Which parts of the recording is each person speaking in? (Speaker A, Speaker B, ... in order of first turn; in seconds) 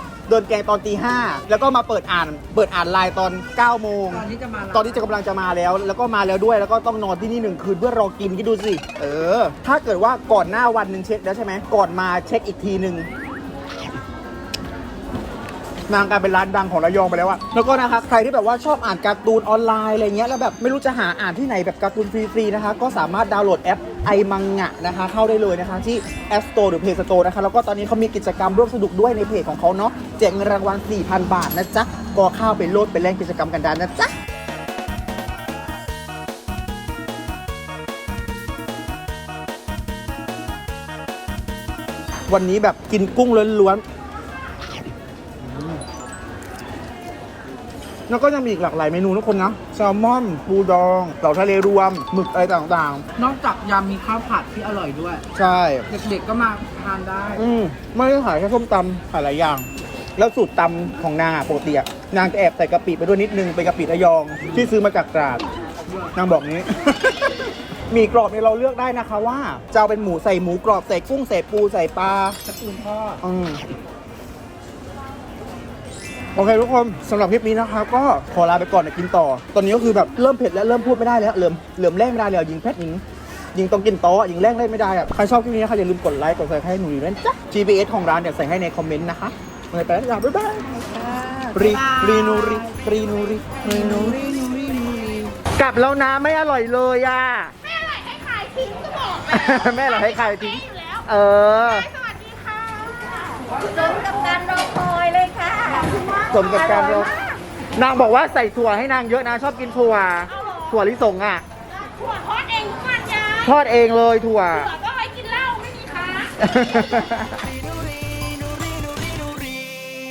Speaker A: 0.3-13.1, 15.9-34.1, 42.3-43.8, 45.4-45.8, 48.1-53.0, 55.4-55.9, 57.4-65.4, 66.2-72.4, 73.2-73.6, 76.3-83.0, 83.5-94.2, 95.6-97.5, 99.3-101.9, 106.3-107.2, 107.8-111.4, 113.4-114.7, 116.4-117.5
Speaker B: 4.1-5.1, 53.2-55.2, 55.9-57.5, 72.5-73.2, 91.5-92.8, 93.6-95.3
Speaker C: 97.7-101.0, 101.8-104.1, 110.3-110.7, 111.8-113.5, 114.7-116.3
Speaker D: 103.8-106.0, 106.7-107.1